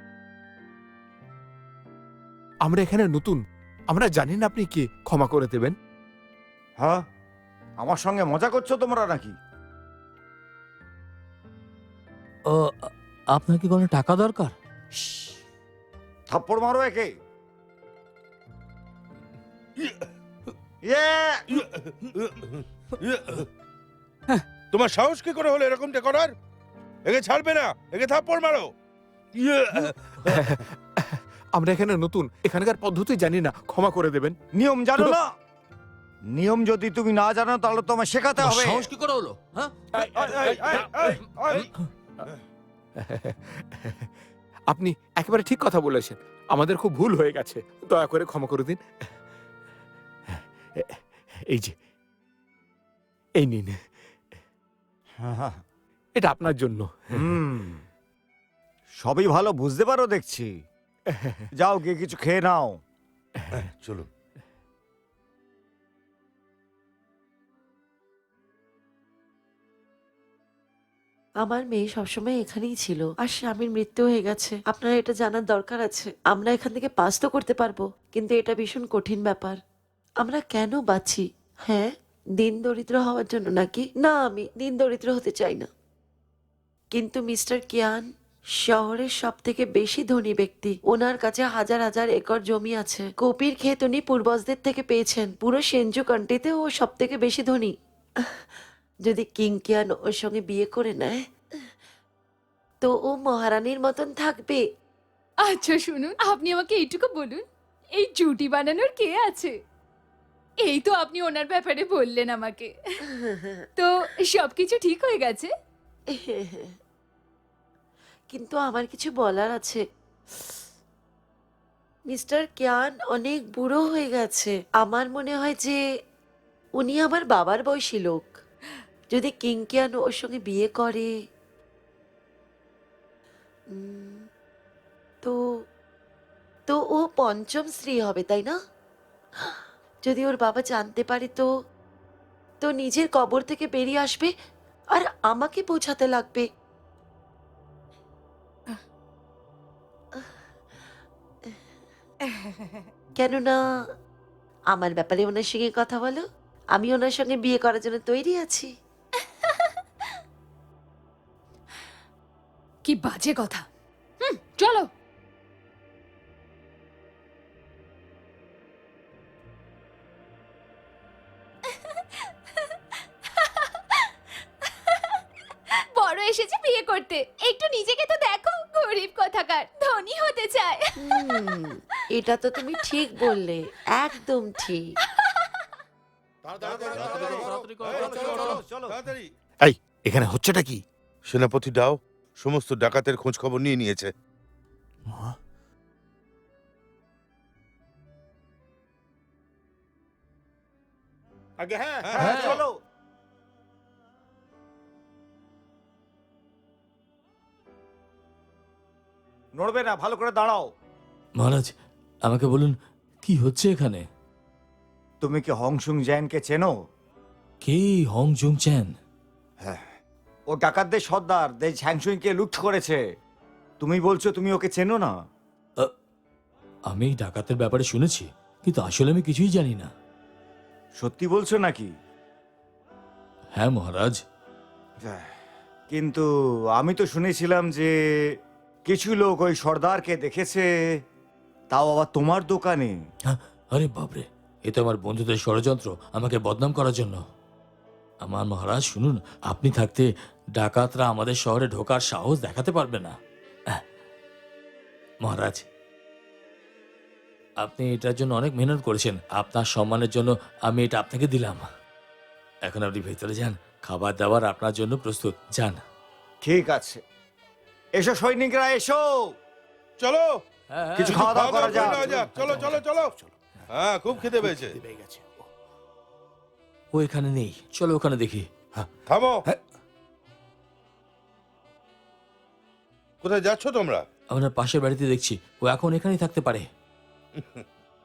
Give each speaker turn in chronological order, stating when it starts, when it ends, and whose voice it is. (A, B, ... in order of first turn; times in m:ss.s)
0:02.6-0:05.7 A
0:07.8-0:09.3 B
0:12.5-0:14.5 C
0:16.3-0:17.1 B
0:19.8-0:20.1 D
0:20.9-0:21.4 B
0:21.5-0:23.5 D
0:24.7-0:26.3 D
0:27.0-0:28.7 D
0:29.3-0:30.6 D
0:30.3-0:34.4 A
0:34.6-0:35.3 B
0:36.3-0:38.9 B
0:38.4-0:39.7 C
0:39.9-0:41.7 A
0:40.0-0:41.7 B
0:43.0-0:44.0 A
0:44.7-0:48.8 A
0:50.3-0:51.7 A
0:53.4-0:53.8 A
0:55.2-0:55.6 B
0:56.2-0:57.3 A
0:57.2-0:57.8 B
0:59.0-1:00.5 B
1:01.6-1:02.8 B
1:03.5-1:04.1 D
1:11.4-1:19.6 E
1:20.2-1:25.7 E
1:26.9-1:28.0 E
1:28.6-1:37.7 E
1:39.0-1:41.2 E
1:42.8-1:44.6 E
1:45.5-1:47.4 F
1:48.0-1:49.5 F
1:50.6-1:52.7 F
1:53.1-1:53.6 E
1:53.8-1:55.5 F
1:56.1-1:56.7 E
1:58.3-1:59.8 E
2:02.1-2:05.8 E
2:06.8-2:08.3 E
2:09.1-2:11.1 E
2:13.7-2:14.2 E
2:16.7-2:18.5 E
2:19.4-2:21.4 E
2:22.6-2:24.3 E
2:24.9-2:26.4 E
2:33.2-2:33.6 E
2:34.7-2:36.2 E
2:36.7-2:38.7 E
2:42.8-2:43.6 F
2:44.2-2:44.8 F
2:56.0-3:01.2 F
3:01.0-3:04.9 E
3:06.4-3:08.5 A
3:06.6-3:09.0 B
3:06.8-3:08.6 C
3:07.8-3:09.3 D
3:09.6-3:10.8 A
3:11.3-3:14.1 D
3:21.6-3:22.6 A
3:22.0-3:22.6 D
3:22.1-3:22.7 B
3:29.6-3:30.6 B
3:31.4-3:31.7 C
3:32.2-3:32.7 C
3:33.2-3:34.0 C
3:35.2-3:36.7 B
3:37.6-3:38.9 C
3:40.5-3:43.0 B
3:43.8-3:45.1 B
3:46.9-3:49.9 C
3:51.0-3:51.9 B
3:53.5-3:54.2 C
3:55.9-3:56.2 B
3:56.8-3:57.9 B
3:58.9-4:00.6 B
4:01.7-4:02.9 B
4:03.3-4:07.2 C
4:08.2-4:13.1 C
4:15.2-4:15.6 C
4:17.6-4:21.6 C
4:22.6-4:25.8 C
4:26.4-4:27.0 B
4:28.0-4:29.0 B
4:30.0-4:30.4 D
4:30.7-4:31.4 C
4:31.0-4:33.1 D
4:31.1-4:32.1 B
4:31.4-4:33.3 A
4:33.7-4:34.8 D
4:34.1-4:35.4 A
4:36.9-4:38.5 C
4:39.1-4:39.4 D
4:43.2-4:44.0 D
4:44.3-4:46.6 C
4:47.4-4:47.6 D